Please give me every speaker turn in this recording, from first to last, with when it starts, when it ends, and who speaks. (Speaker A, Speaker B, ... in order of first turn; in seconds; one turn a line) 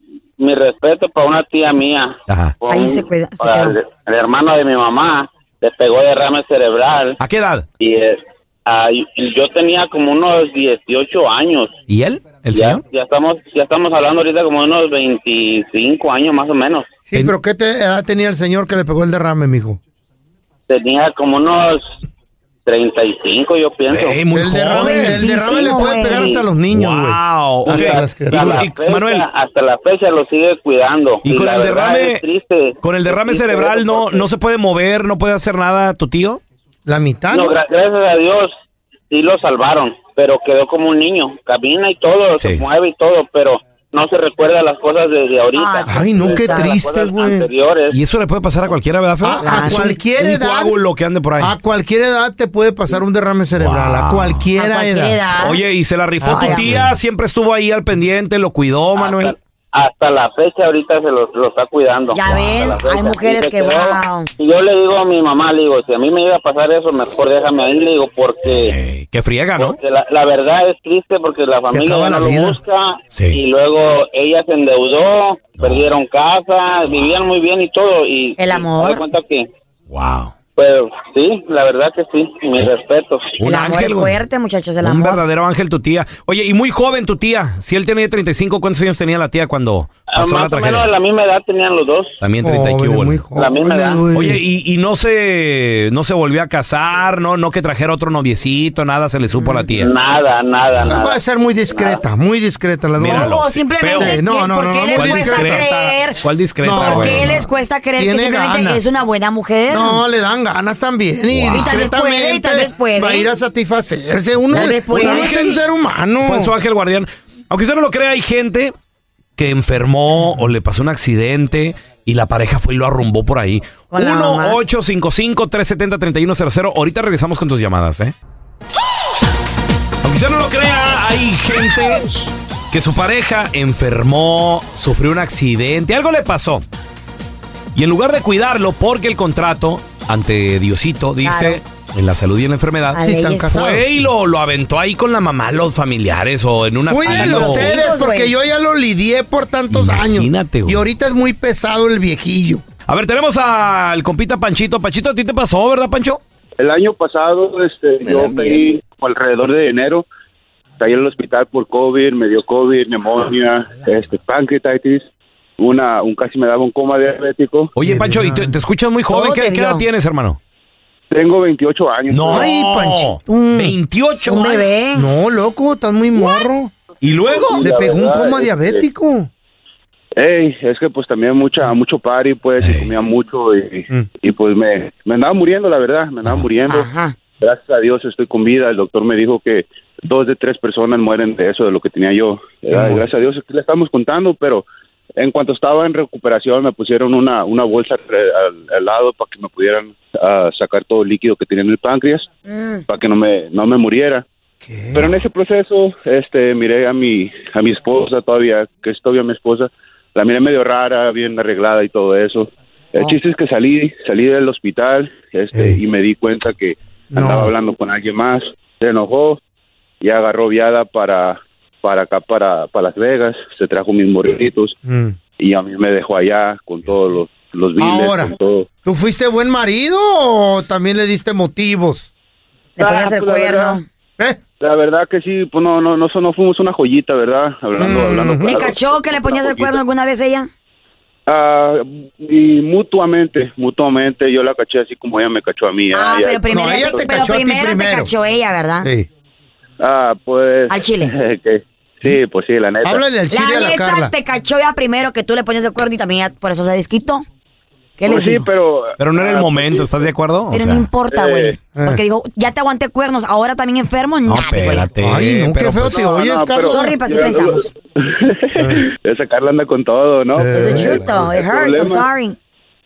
Speaker A: 0.4-7.2
Speaker B: 2.3-2.5
Speaker C: 2.7-3.8
Speaker B: 7.2-7.7
Speaker A: 7.8-11.8
Speaker B: 11.9-12.8
Speaker A: 12.5-16.9
Speaker D: 17.1-19.8
Speaker A: 20.7-21.9
Speaker A: 22.7-24.2
Speaker B: 23.9-25.3
Speaker D: 24.3-28.7
Speaker C: 24.8-26.4
Speaker A: 25.6-26.4
Speaker B: 26.7-29.3
Speaker A: 27.7-34.3
Speaker B: 31.2-32.2
Speaker B: 32.8-36.4
Speaker D: 36.9-37.6
Speaker A: 37.3-38.5
Speaker A: 39.1-48.0
Speaker B: 42.4-42.6
Speaker C: 45.5-46.7
Speaker D: 45.9-47.5
Speaker B: 47.9-51.5
Speaker D: 49.2-50.8
Speaker C: 49.4-49.9
Speaker D: 51.4-55.2
Speaker B: 53.5-54.5
Speaker C: 54.6-55.6
Speaker B: 55.4-59.4
Speaker D: 56.2-56.9
Speaker C: 56.2-56.8
Speaker A: 59.0-68.8
Speaker C: 62.1-64.3
Speaker B: 62.3-62.6
Speaker B: 68.4-69.8
Speaker A: 69.6-79.5
Speaker D: 71.7-72.6
Speaker B: 73.1-73.4
Speaker B: 75.6-75.9
Speaker B: 77.0-77.2
Speaker C: 78.4-79.1
Speaker B: 79.9-80.3
Speaker A: 80.6-83.4
Speaker B: 83.4-84.2
Speaker C: 83.4-85.2
Speaker B: 84.8-90.9
Speaker A: 90.1-92.2
Speaker B: 92.2-93.2
Speaker D: 92.4-94.4
Speaker A: 93.4-94.0
Speaker B: 94.1-99.9
Speaker D: 99.4-99.7
Speaker A: 99.7-102.0
Speaker B: 100.7-101.0
Speaker D: 100.8-105.8
Speaker B: 103.0-104.2
Speaker C: 103.1-110.0
Speaker B: 104.9-107.4
Speaker D: 106.6-108.9
Speaker D: 109.7-116.5
Speaker B: 111.3-111.8
Speaker C: 111.5-113.3
Speaker C: 114.5-115.6
Speaker B: 114.9-115.5
Speaker B: 116.2-118.7
Speaker B: 119.4-128.1
Speaker C: 123.9-124.6
Speaker B: 130.0-136.6
Speaker B: 137.8-143.0
Speaker C: 141.2-141.6
Speaker C: 142.9-143.5
Speaker D: 143.0-143.9
Speaker B: 143.5-147.8
Speaker D: 146.9-152.6
Speaker C: 147.0-148.3
Speaker B: 149.7-150.8
Speaker B: 152.9-156.2
Speaker E: 156.6-160.1
Speaker D: 158.0-158.6
Speaker E: 160.8-165.1
Speaker E: 165.6-167.7
Speaker B: 167.8-170.4
Speaker D: 167.8-168.6
Speaker C: 169.1-169.8
Speaker E: 171.1-172.5
Speaker B: 172.1-174.7
Speaker D: 172.3-173.8
Speaker C: 174.3-175.1
Speaker D: 174.9-176.7
Speaker B: 177.0-177.7
Speaker E: 177.6-178.8
Speaker D: 177.6-179.3
Speaker A: 177.6-178.0
Speaker E: 180.2-194.7
Speaker B: 182.6-182.9
Speaker C: 186.7-187.2
Speaker D: 192.7-193.0
Speaker E: 195.2-202.3
Speaker C: 202.5-202.8
Speaker E: 202.9-204.2
Speaker D: 204.7-205.2
Speaker E: 204.9-219.4
Speaker D: 215.5-215.8
Speaker D: 217.1-217.5
Speaker E: 220.0-224.8
Speaker D: 224.8-225.2
Speaker E: 225.4-228.7
Speaker D: 227.8-232.1
Speaker C: 232.8-233.8
Speaker E: 232.8-233.8
Speaker E: 234.6-239.8
Speaker D: 237.8-238.7
Speaker C: 238.4-240.5
Speaker E: 241.3-247.2
Speaker C: 245.9-248.9
Speaker D: 246.5-248.1
Speaker E: 249.8-253.1
Speaker C: 250.7-251.1
Speaker D: 252.8-254.1
Speaker C: 253.3-257.2
Speaker C: 258.0-258.5
Speaker E: 258.0-260.1
Speaker B: 259.0-260.9
Speaker C: 260.5-264.9
Speaker E: 261.1-261.6
Speaker D: 261.7-262.0
Speaker B: 264.3-266.1
Speaker D: 265.0-267.2
Speaker E: 265.9-272.1
Speaker C: 266.7-267.7
Speaker D: 268.6-268.9
Speaker D: 270.4-271.2
Speaker C: 270.5-272.4